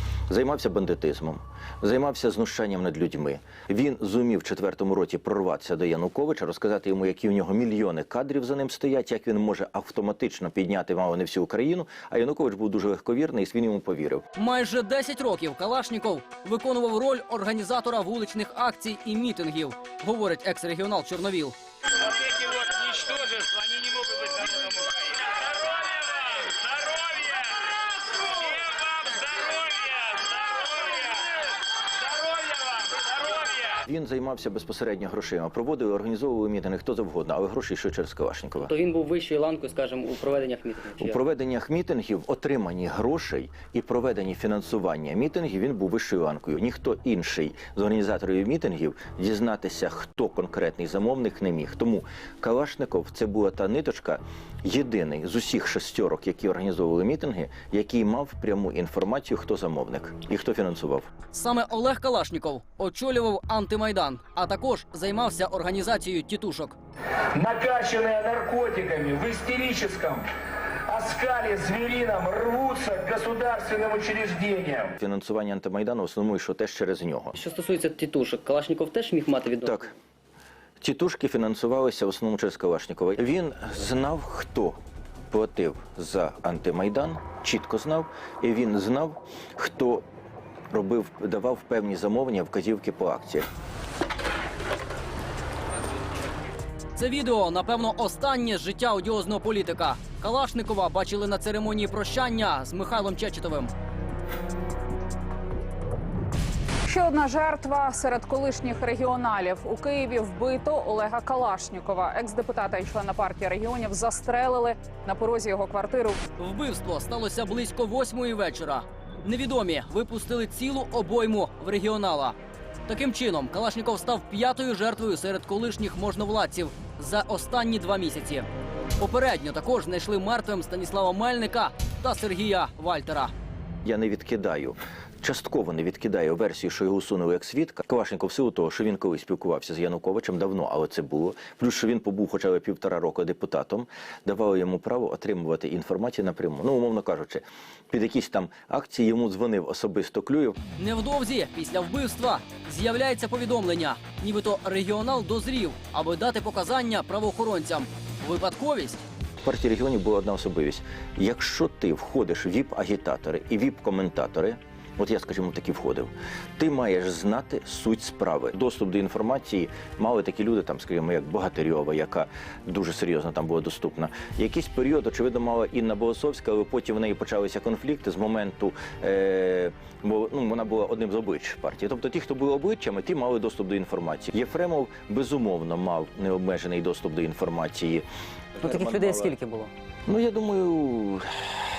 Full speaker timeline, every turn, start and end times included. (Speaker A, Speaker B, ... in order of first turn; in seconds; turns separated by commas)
Speaker A: 0.3-14.2, Speaker B: 14.3-21.5, Speaker A: 33.8-38.7, Speaker C: 38.6-41.2, Speaker A: 41.0-61.1, Speaker B: 61.3-66.8, Speaker D: 67.3-70.2, Speaker D: 70.9-74.9, Speaker A: 75.0-77.3, Speaker C: 77.3-79.9, Speaker A: 79.6-79.9, Speaker A: 80.8-84.8, Speaker A: 85.3-90.0, Speaker A: 90.7-93.5, Speaker B: 97.0-103.7, Speaker E: 106.9-116.2, Speaker B: 116.4-122.3, Speaker B: 122.9-128.5, Speaker B: 129.0-133.3, Speaker A: 133.8-150.6, Speaker B: 150.8-159.0, Speaker A: 159.4-188.0, Speaker A: 188.6-189.4, Speaker C: 188.6-189.7, Speaker A: 190.1-191.3